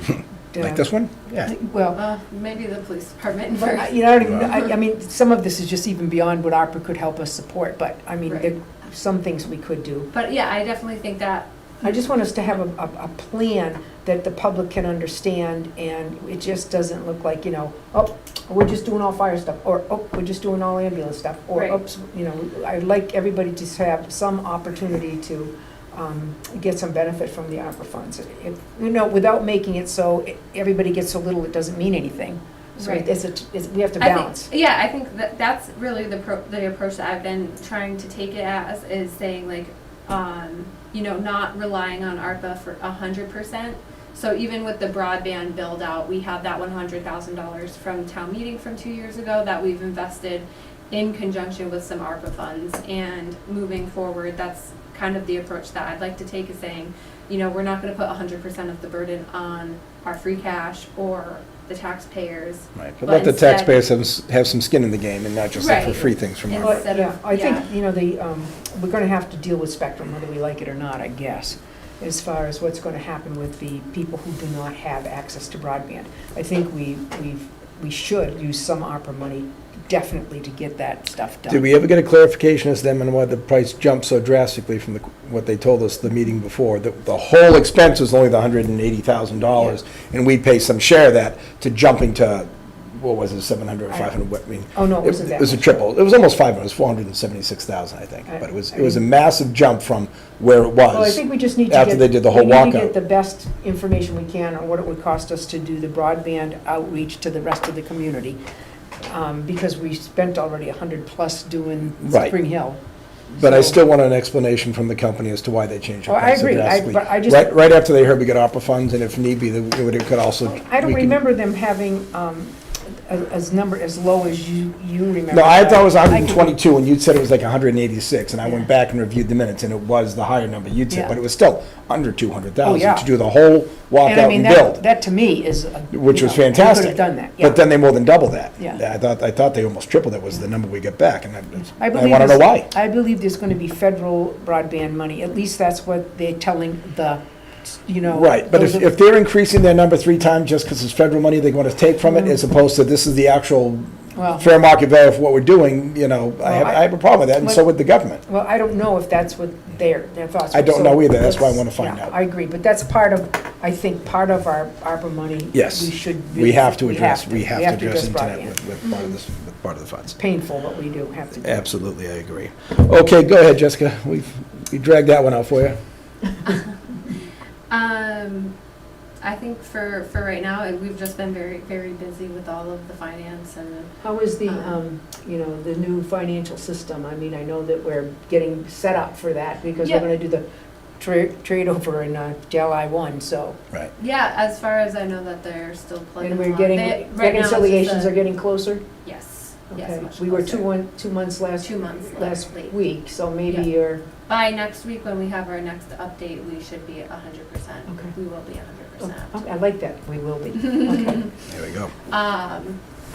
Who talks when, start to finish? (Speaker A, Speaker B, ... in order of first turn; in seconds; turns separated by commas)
Speaker A: 0.5-0.9, Speaker B: 0.6-1.5, Speaker A: 1.4-2.0, Speaker C: 1.9-4.7, Speaker A: 3.5-10.1, Speaker C: 8.3-8.5, Speaker C: 10.1-11.5, Speaker A: 11.8-34.5, Speaker C: 32.8-33.1, Speaker C: 34.0-63.8, Speaker B: 62.8-66.8, Speaker C: 65.5-67.7, Speaker A: 66.6-81.7, Speaker B: 81.5-102.9, Speaker A: 94.7-95.8, Speaker A: 98.3-99.0, Speaker A: 100.9-108.4, Speaker A: 109.0-113.8, Speaker B: 112.0-112.3, Speaker B: 113.4-121.1, Speaker A: 116.1-117.5, Speaker A: 120.5-126.5, Speaker B: 125.3-134.8, Speaker A: 132.6-133.1, Speaker A: 134.0-137.6, Speaker B: 135.9-142.7, Speaker A: 141.7-148.9, Speaker B: 148.1-158.2, Speaker A: 152.1-152.3, Speaker A: 154.2-154.5, Speaker A: 156.4-156.8, Speaker A: 158.3-168.6, Speaker B: 160.5-162.2, Speaker B: 165.5-170.2, Speaker C: 168.8-169.2, Speaker A: 170.1-171.7, Speaker B: 171.4-175.8, Speaker C: 176.5-176.7, Speaker C: 177.7-178.5, Speaker C: 179.2-183.9, Speaker A: 184.0-190.4, Speaker C: 184.5-184.8, Speaker C: 189.8-190.1, Speaker A: 191.0-193.6, Speaker C: 194.0-198.2, Speaker A: 196.2-198.8, Speaker C: 199.0-200.7, Speaker A: 199.7-204.0, Speaker C: 201.6-202.8, Speaker C: 204.3-209.4, Speaker A: 209.0-211.3, Speaker C: 210.9-211.1, Speaker B: 211.4-211.9, Speaker C: 212.1-212.8